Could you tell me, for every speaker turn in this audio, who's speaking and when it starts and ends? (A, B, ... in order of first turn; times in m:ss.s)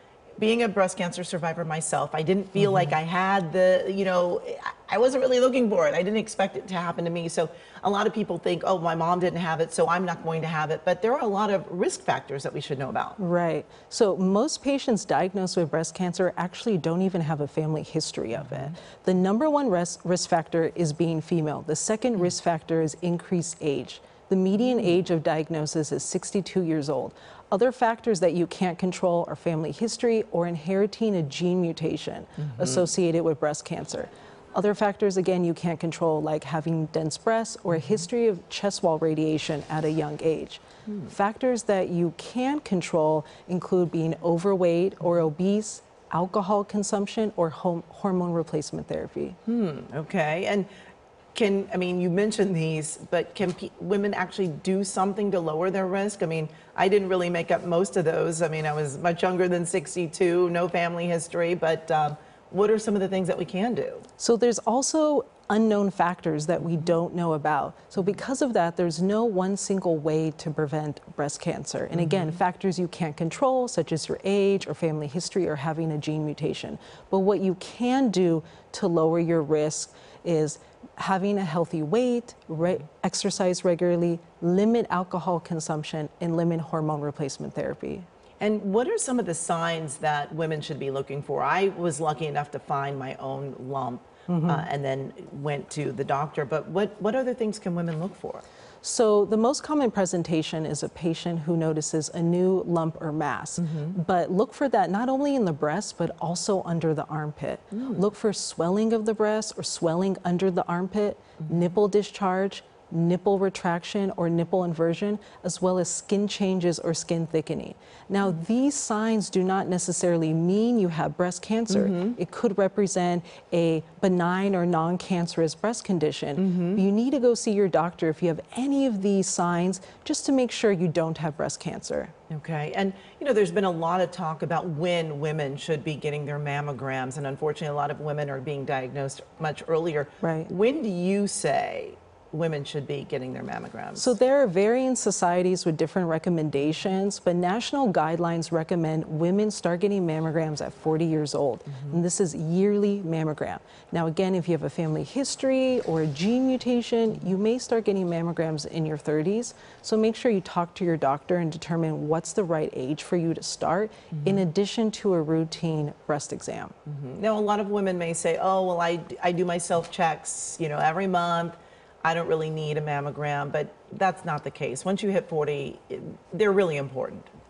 0:00.4-0:13.2 A
0:13.2-0:49.4 B
0:18.4-0:18.7 A
0:32.4-0:32.8 A
0:37.7-0:38.1 A
0:40.9-0:41.1 A
0:49.5-0:50.7 A
0:51.4-1:04.0 A
1:04.2-1:28.1 B
1:11.9-1:12.4 A
1:28.4-1:38.4 A
1:34.3-1:34.7 B
1:38.8-2:12.1 B
1:43.6-1:44.0 A
1:47.7-1:48.0 A
2:01.7-2:02.2 A
2:06.4-2:06.8 A
2:12.3-2:24.2 A
2:20.2-2:20.5 B
2:24.0-2:46.7 B
2:31.7-2:32.0 A
2:44.1-2:44.4 A
2:46.9-2:57.3 A